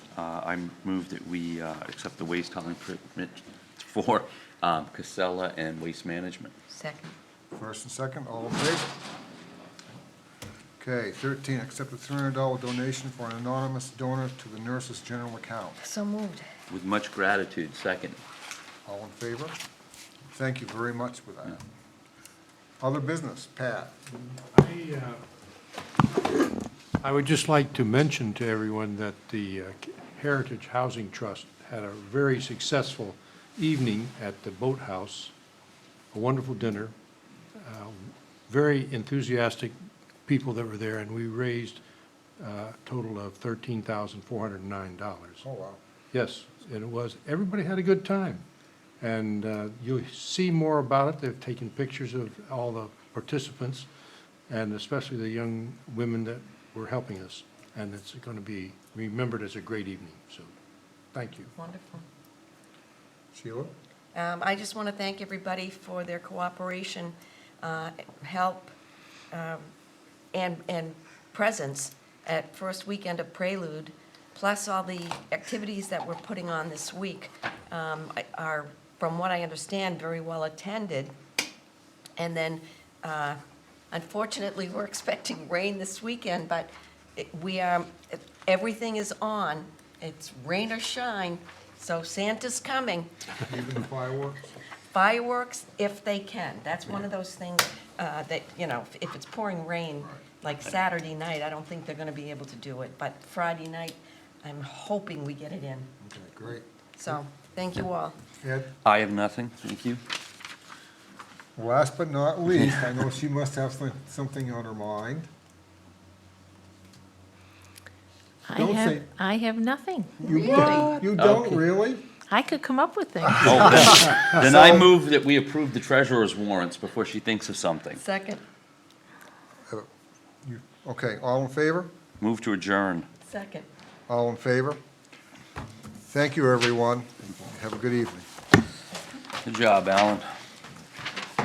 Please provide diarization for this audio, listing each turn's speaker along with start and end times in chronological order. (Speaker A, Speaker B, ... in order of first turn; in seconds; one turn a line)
Speaker A: 0.1-6.5
Speaker B: 6.7-7.2
Speaker C: 7.5-8.9
Speaker C: 10.8-15.8
Speaker B: 15.8-16.5
Speaker A: 16.7-18.2
Speaker C: 18.8-19.6
Speaker C: 20.3-21.6
Speaker C: 22.8-24.0
Speaker D: 24.3-25.2
Speaker D: 27.0-35.3
Speaker D: 36.1-36.9
Speaker D: 37.6-39.7
Speaker D: 40.3-41.8
Speaker D: 42.4-45.4
Speaker C: 45.4-45.8
Speaker D: 46.1-48.4
Speaker D: 49.0-53.9
Speaker D: 54.5-60.5
Speaker D: 61.1-61.5
Speaker B: 61.6-62.0
Speaker C: 63.3-63.7
Speaker B: 64.1-68.7
Speaker B: 69.3-69.7
Speaker B: 70.3-81.1
Speaker B: 82.2-83.4
Speaker B: 83.9-93.1
Speaker C: 93.4-94.4
Speaker B: 94.9-105.9
Speaker C: 106.0-107.2
Speaker B: 107.0-108.2
Speaker C: 108.4-108.7
Speaker A: 108.8-110.0
Speaker C: 111.6-115.3
Speaker E: 118.5-120.8
Speaker C: 118.5-119.1
Speaker C: 120.2-122.0
Speaker B: 120.2-121.0
Speaker A: 121.1-121.6
Speaker E: 122.3-124.1
Speaker A: 123.4-128.0
Speaker C: 124.3-124.9
Speaker B: 127.9-128.4
Speaker C: 130.4-131.9
Speaker A: 132.2-133.1
Speaker B: 133.2-133.7
Speaker C: 134.1-134.8
Speaker C: 136.0-138.2
Speaker A: 139.4-140.3